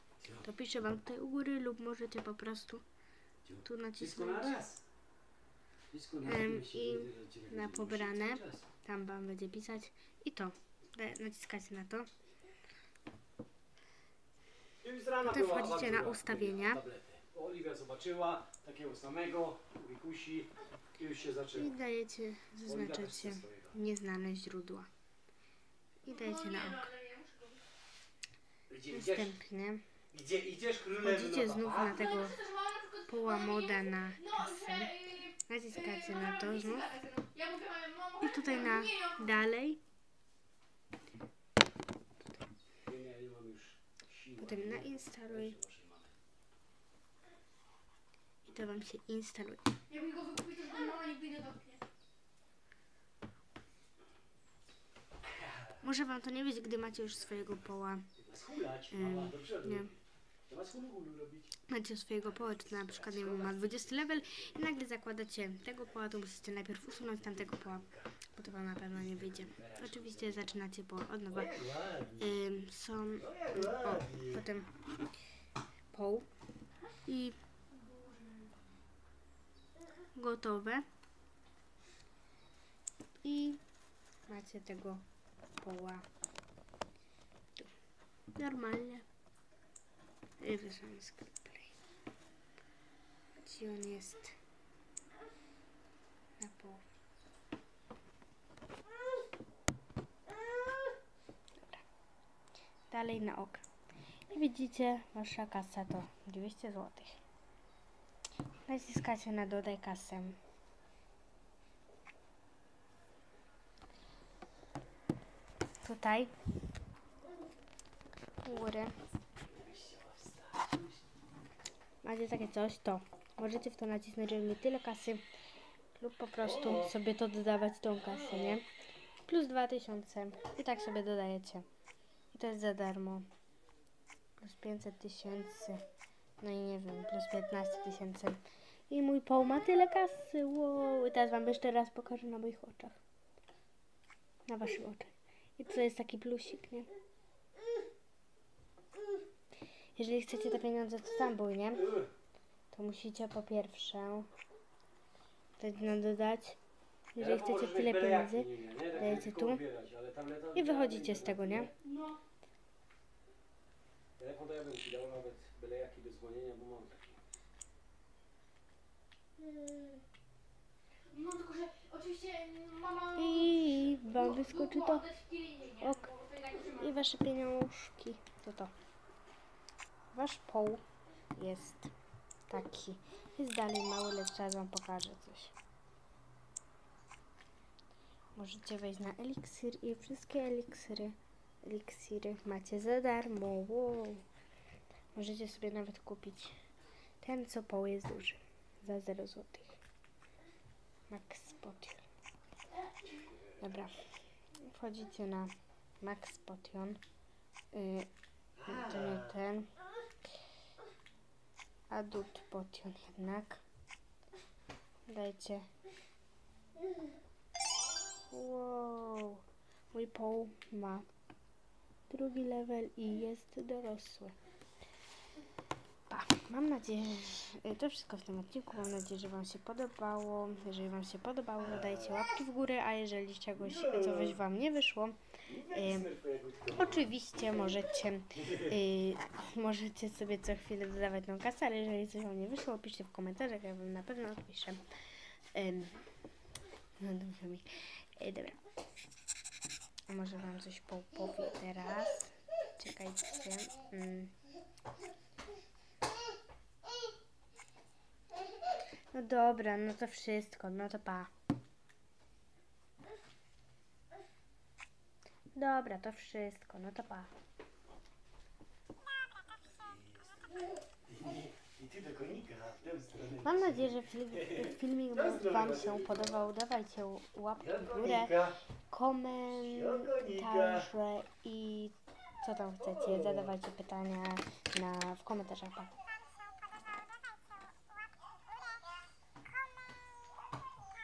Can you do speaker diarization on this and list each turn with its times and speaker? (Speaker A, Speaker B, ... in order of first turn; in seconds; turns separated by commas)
Speaker A: 0.2-0.5, Speaker B: 0.4-2.8, Speaker A: 3.4-4.8, Speaker B: 3.6-4.6, Speaker A: 5.9-8.7, Speaker B: 6.2-12.1, Speaker A: 14.8-21.8, Speaker B: 15.2-16.8, Speaker B: 21.5-24.9, Speaker A: 22.6-23.8, Speaker B: 26.0-26.9, Speaker C: 26.0-27.6, Speaker A: 28.7-29.3, Speaker B: 28.9-29.8, Speaker A: 30.1-32.0, Speaker B: 31.0-32.4, Speaker C: 31.8-39.5, Speaker B: 33.1-34.9, Speaker B: 35.5-36.9, Speaker B: 38.2-39.8, Speaker A: 42.9-46.1, Speaker B: 44.4-45.6, Speaker B: 48.4-49.6, Speaker C: 49.9-51.8, Speaker A: 55.2-55.8, Speaker B: 55.8-58.1, Speaker A: 56.9-61.5, Speaker B: 58.9-59.9, Speaker B: 61.7-71.6, Speaker A: 62.3-64.7, Speaker A: 67.2-68.1, Speaker A: 68.9-70.6, Speaker A: 71.3-72.4, Speaker B: 72.2-74.7, Speaker A: 73.2-74.5, Speaker B: 75.9-76.3, Speaker B: 77.0-77.4, Speaker C: 77.7-78.5, Speaker B: 80.1-80.8, Speaker B: 83.2-83.6, Speaker B: 84.3-85.0, Speaker B: 85.6-86.0, Speaker B: 88.3-89.0, Speaker B: 90.4-91.7, Speaker B: 93.4-94.3, Speaker B: 96.4-96.8, Speaker B: 102.9-103.6, Speaker B: 104.3-107.2, Speaker B: 108.7-110.4, Speaker B: 115.8-116.3, Speaker B: 118.4-118.9, Speaker A: 119.4-121.0, Speaker B: 122.0-125.2, Speaker B: 126.0-128.7, Speaker A: 126.4-127.0, Speaker A: 127.9-128.6, Speaker B: 129.2-131.6, Speaker B: 132.3-133.2, Speaker B: 134.4-135.8, Speaker B: 136.4-142.9, Speaker B: 144.5-146.9, Speaker B: 149.9-152.0, Speaker A: 151.8-152.1, Speaker B: 152.7-154.3, Speaker B: 155.6-156.6, Speaker B: 157.1-159.6, Speaker A: 157.2-161.7, Speaker B: 160.5-161.7, Speaker C: 161.8-162.2, Speaker A: 164.2-167.2, Speaker C: 171.1-177.0, Speaker B: 173.2-175.1, Speaker B: 175.8-176.1, Speaker B: 176.8-178.7, Speaker B: 180.1-180.8, Speaker B: 181.3-181.9, Speaker B: 182.5-185.5, Speaker B: 188.3-194.2, Speaker B: 195.1-196.5, Speaker B: 197.2-199.8, Speaker B: 201.1-202.0, Speaker B: 203.6-203.9, Speaker B: 204.6-207.0, Speaker B: 207.7-208.1, Speaker A: 208.6-209.4, Speaker B: 208.6-209.7, Speaker B: 211.9-213.6, Speaker B: 215.1-215.7, Speaker B: 218.3-221.0, Speaker B: 222.1-224.3, Speaker B: 226.1-235.2, Speaker A: 231.6-232.2, Speaker A: 233.5-234.4, Speaker A: 235.4-237.8, Speaker B: 235.7-236.1, Speaker B: 236.7-244.8, Speaker B: 245.5-246.0, Speaker B: 247.0-248.6, Speaker B: 250.1-254.3, Speaker B: 259.1-261.3, Speaker B: 265.5-267.3, Speaker A: 269.7-276.5, Speaker B: 273.4-285.9, Speaker A: 277.6-278.6, Speaker A: 279.5-280.9, Speaker A: 282.8-283.6